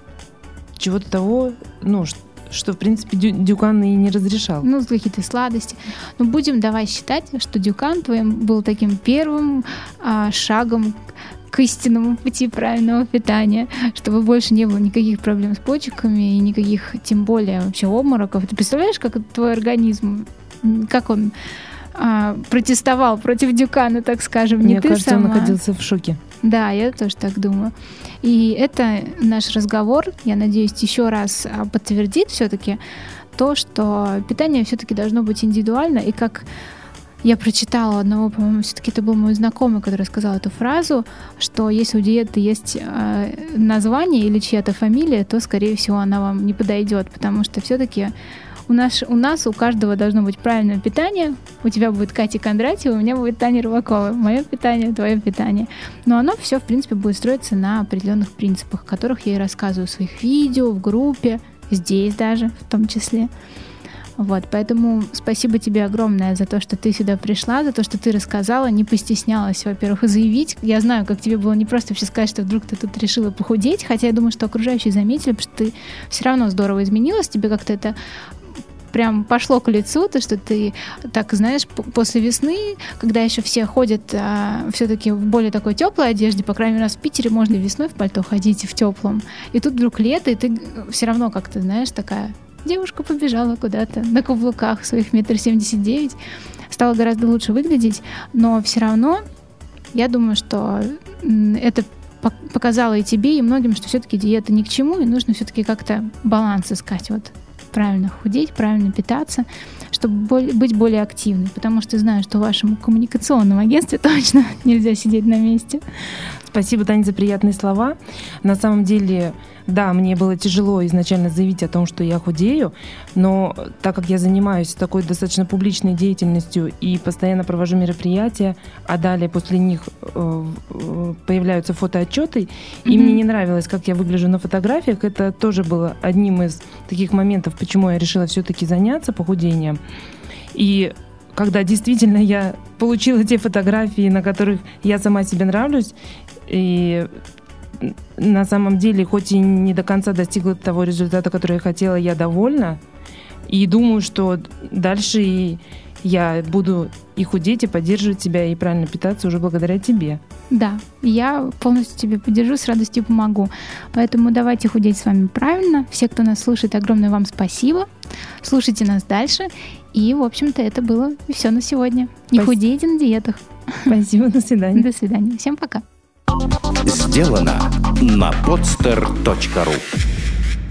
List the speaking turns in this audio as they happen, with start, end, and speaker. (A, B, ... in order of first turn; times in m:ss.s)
0:00.8-0:04.7 A
0:04.6-0:21.3 B
0:22.0-0:25.6 B
0:24.6-0:26.2 A
0:26.4-0:32.8 B
0:33.4-0:36.5 B
0:37.2-0:48.1 B
0:48.7-1:03.3 B
1:04.2-1:18.0 B
1:18.9-1:36.2 B
1:36.7-1:39.2 B
1:39.9-1:55.8 B
1:56.5-2:19.8 A
2:12.9-2:13.2 B
2:20.5-2:26.0 A
2:26.5-2:27.1 A
2:27.8-2:32.8 A
2:33.5-2:40.2 A
2:40.5-2:47.9 B
2:48.4-2:53.9 B
2:53.9-2:54.9 A
2:54.8-2:55.8 B
2:56.8-2:59.8 C